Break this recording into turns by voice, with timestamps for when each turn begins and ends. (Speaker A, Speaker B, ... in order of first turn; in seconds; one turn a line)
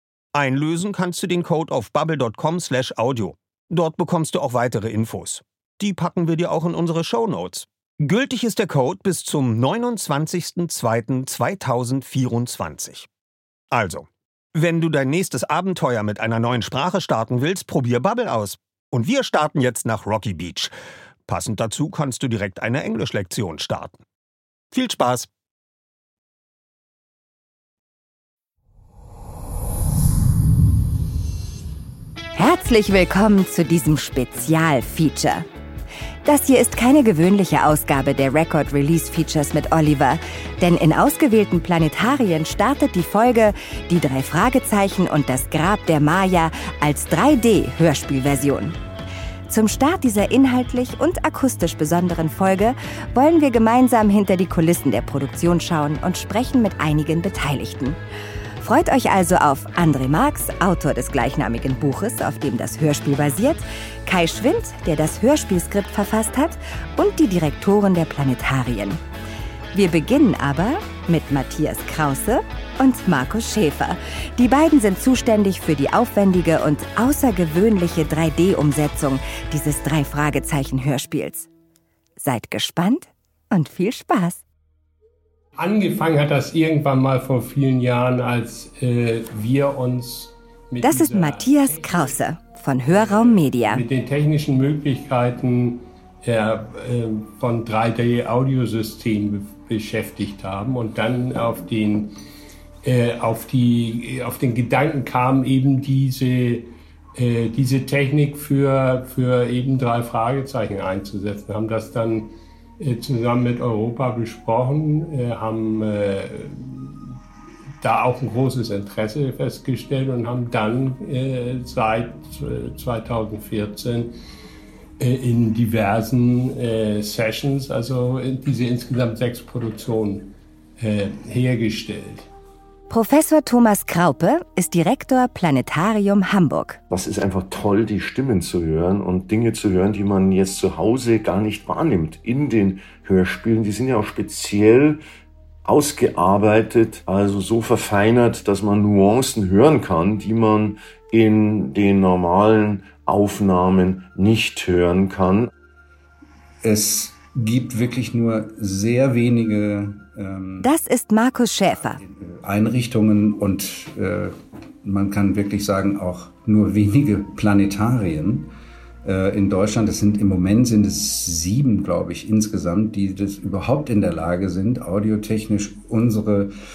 Speaker A: 0.3-13.1
Speaker A: 13.7-20.7
Speaker A: 21.3-24.0
Speaker A: 24.7-25.3
Speaker B: 32.3-35.5
Speaker B: 36.2-48.8
Speaker B: 49.5-58.0
Speaker B: 58.6-69.0
Speaker B: 69.7-81.5
Speaker B: 82.2-84.4
Speaker C: 85.6-92.2
Speaker B: 90.8-93.8
Speaker C: 92.8-102.1
Speaker C: 102.8-117.1
Speaker C: 117.8-124.1
Speaker C: 125.0-132.3
Speaker B: 132.9-136.8
Speaker D: 136.9-145.0
Speaker D: 145.6-155.5
Speaker E: 156.6-160.7
Speaker B: 160.6-162.0
Speaker E: 161.7-164.3
Speaker E: 164.8-168.5
Speaker E: 169.0-176.5